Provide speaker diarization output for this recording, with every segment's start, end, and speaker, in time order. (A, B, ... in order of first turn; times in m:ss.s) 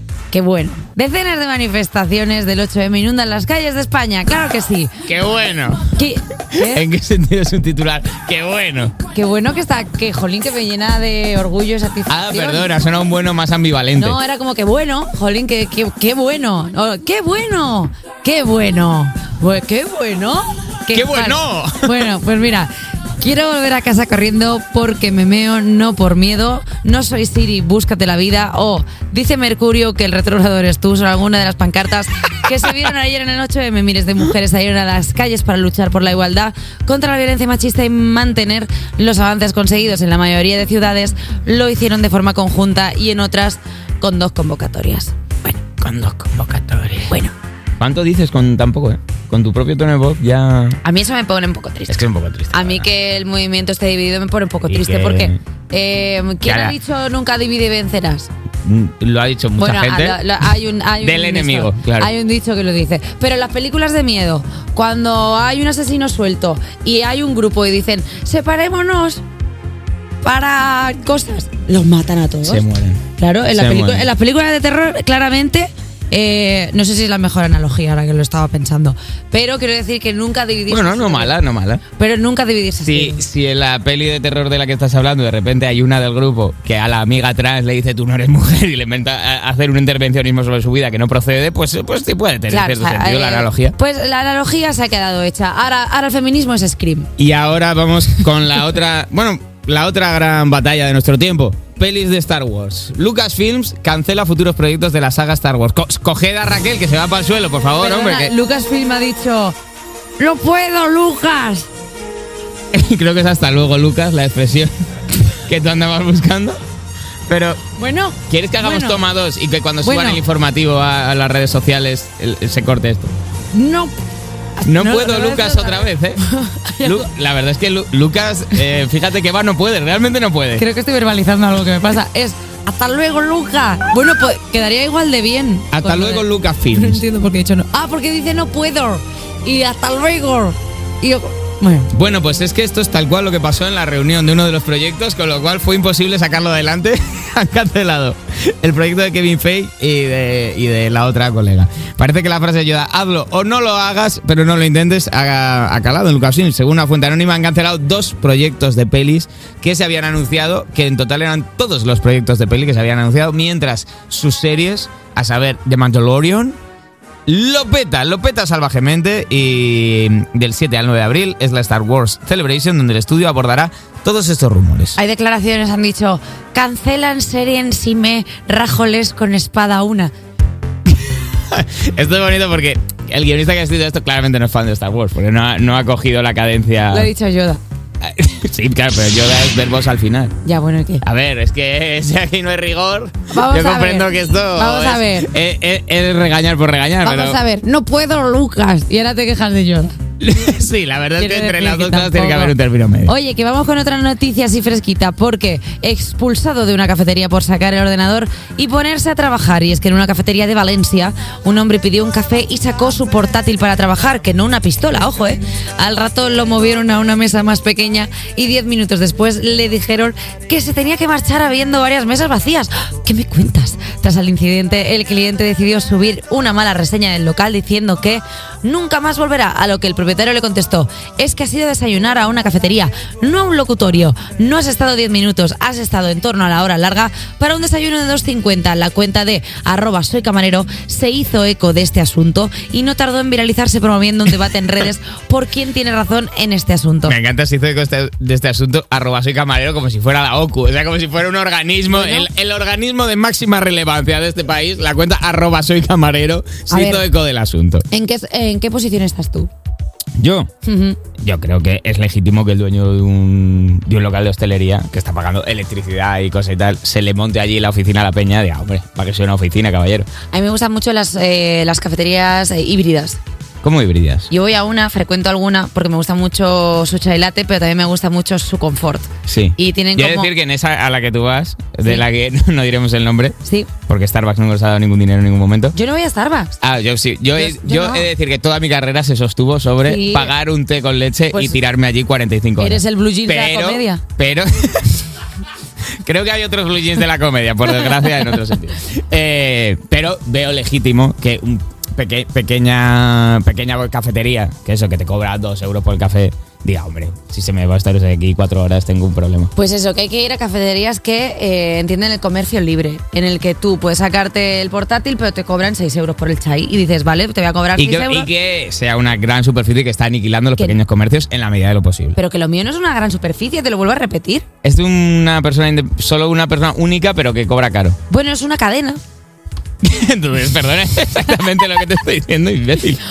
0:00.3-0:05.0 A
0:05.0-0:05.9 B
0:05.9-0:06.8 A
0:06.5-0:09.0 B
0:09.1-0:12.7 A
0:12.1-0:14.2 B
0:14.0-0:45.6 A
0:20.9-0:22.1 B
0:45.8-0:47.1 B
0:47.1-0:47.3 A
0:47.8-0:50.8 B
0:50.8-0:58.3 A
0:51.9-0:52.9 B
0:54.7-0:55.4 B
0:56.4-0:56.8 B
0:58.6-1:00.2 B
0:59.6-1:09.2 A
1:01.0-1:02.1 B
1:10.2-1:12.6 A
1:12.4-1:14.1 B
1:13.2-1:21.4 A
1:20.7-1:21.8 B
1:22.0-1:23.2 A
1:22.9-1:33.8 B
1:32.5-1:37.1 A
1:37.2-1:48.3 B
1:47.8-1:49.6 A
1:50.2-1:51.7 A
1:52.7-1:54.7 B
1:55.3-1:56.6 B
1:57.3-1:57.6 B
1:57.8-1:59.0 A
1:58.3-2:03.1 B
1:59.8-2:00.2 A
2:03.5-2:03.9 A
2:04.6-2:07.1 A
2:04.7-2:06.2 B
2:06.8-2:10.6 B
2:10.6-2:21.9 A
2:15.7-2:17.0 B
2:21.9-2:46.6 B
2:47.3-2:55.0 B
2:55.0-3:00.1 A
3:00.9-3:07.1 B
3:06.9-3:07.6 A
3:08.0-3:10.4 B
3:10.4-3:11.0 A
3:11.0-3:17.4 B
3:13.3-3:15.3 A
3:17.0-3:20.0 A
3:20.2-3:23.1 B
3:21.2-3:22.5 A
3:23.1-4:07.2 A
4:07.1-4:17.8 B
4:11.9-4:12.3 A
4:16.7-4:17.1 A
4:17.9-4:19.5 A
4:20.2-4:20.5 B
4:20.6-4:21.0 A
4:21.2-4:30.1 B
4:30.3-4:33.2 A
4:33.6-4:34.3 B
4:34.3-4:40.3 A
4:39.3-4:43.4 B
4:43.4-4:43.7 A
4:43.9-4:45.8 B
4:45.7-4:46.6 A
4:46.6-4:55.1 B
4:47.4-4:48.1 A
4:49.8-4:50.3 A
4:52.6-4:54.0 A
4:56.0-5:09.5 B
5:09.6-5:18.3 A
5:17.8-5:22.2 B
5:22.2-5:24.5 A
5:24.6-5:28.0 B
5:28.1-5:29.0 A
5:29.8-5:33.0 B